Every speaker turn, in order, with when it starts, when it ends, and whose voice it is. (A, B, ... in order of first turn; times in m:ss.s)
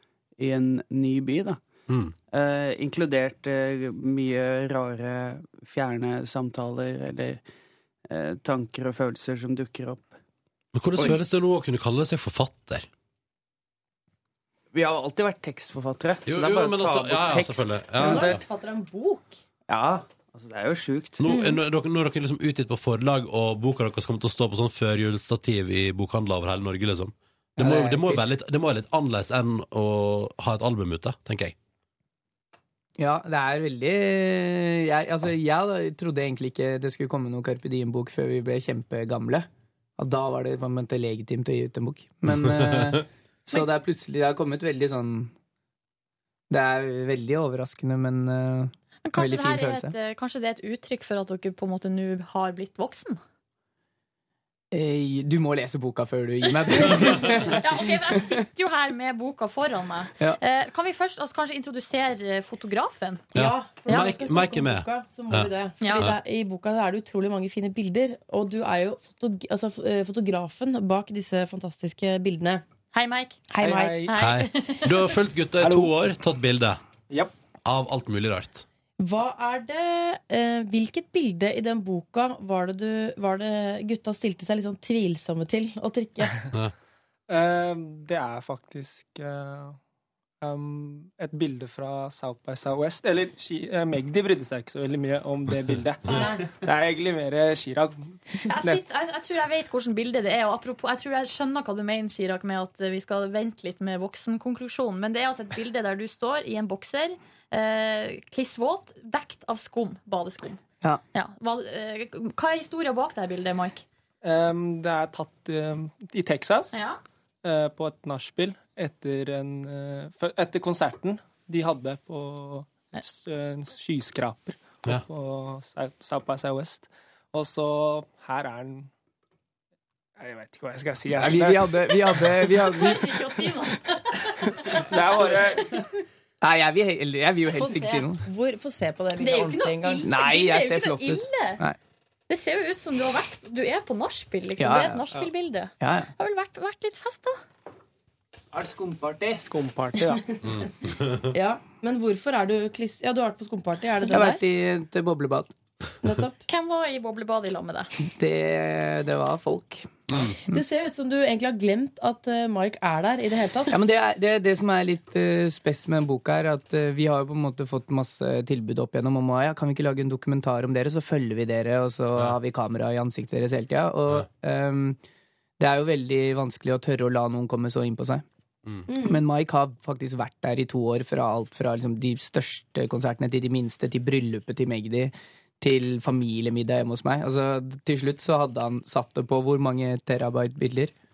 0:00.4-0:01.6 A
0:01.9-0:02.1 B
0:02.3-0:07.4 A
0:08.1-0:10.1 A
0:10.7-0:12.8 B
0:14.7-0:18.4 A
0:16.3-0:18.4 B
0:18.0-0:19.4 C
0:19.7-0:21.2 A
0:21.2-0:31.5 B
0:21.2-0:21.6 C
0:27.6-0:28.2 D
0:33.0-0:45.3 D
0:42.3-0:43.0 B
0:46.5-0:49.9 D
0:49.0-0:53.2 E
0:54.7-0:58.4 D
0:56.8-1:03.3 E
1:03.3-1:06.2 B
1:03.3-1:12.6 C
1:05.8-1:06.1 E
1:12.9-1:15.0 E
1:13.5-1:14.1 C
1:13.6-1:14.1 F
1:14.2-1:16.8 B
1:15.6-1:15.9 F
1:17.6-1:18.6 B
1:19.0-1:26.4 C
1:27.3-1:29.8 F
1:30.4-1:38.8 F
1:36.1-1:36.4 C
1:38.4-1:50.6 E
1:51.1-1:53.8 E
1:54.2-1:56.8 F
1:56.7-1:57.0 E
1:57.4-2:08.9 F
2:10.2-2:12.5 F
2:11.2-2:13.3 D
2:12.5-2:15.4 E
2:14.7-2:15.8 F
2:16.4-2:18.2 D
2:17.5-2:20.1 C
2:19.2-2:21.6 E
2:20.0-2:21.8 D
2:22.3-2:27.4 E
2:24.6-2:25.0 D
2:25.8-2:26.1 D
2:29.4-2:30.2 F
2:30.4-2:31.3 B
2:31.3-2:34.4 C
2:34.1-2:35.5 D
2:36.0-2:36.4 C
2:36.5-2:37.9 E
2:38.0-2:39.9 D
2:40.1-2:40.4 B
2:40.5-2:43.8 C
2:43.7-2:55.0 D
2:55.6-2:58.2 D
2:58.9-2:59.2 C
2:59.0-3:10.9 D